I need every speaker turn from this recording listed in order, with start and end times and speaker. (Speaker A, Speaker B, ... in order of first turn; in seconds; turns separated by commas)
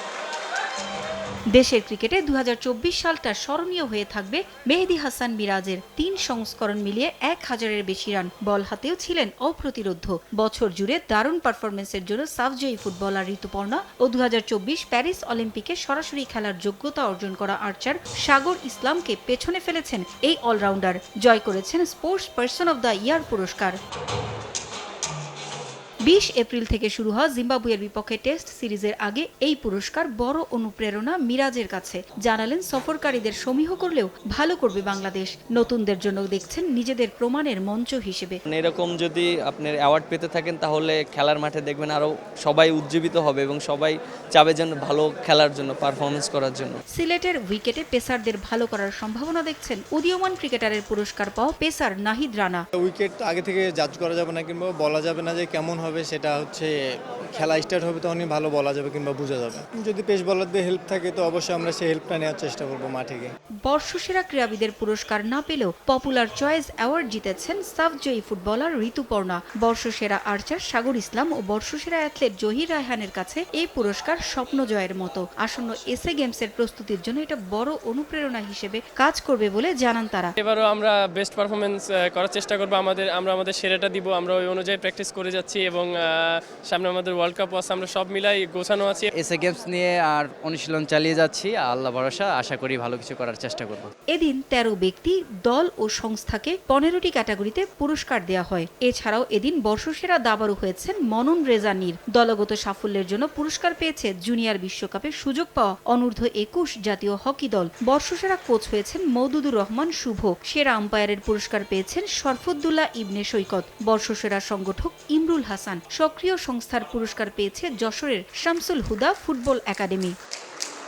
Speaker A: 1.5-23.8, Speaker A: 26.1-38.4, Speaker B: 38.5-46.8, Speaker A: 46.9-52.6, Speaker C: 52.8-56.7, Speaker C: 57.3-63.3, Speaker A: 63.6-80.3, Speaker D: 80.4-89.1, Speaker E: 89.2-93.9, Speaker A: 94.1-120.2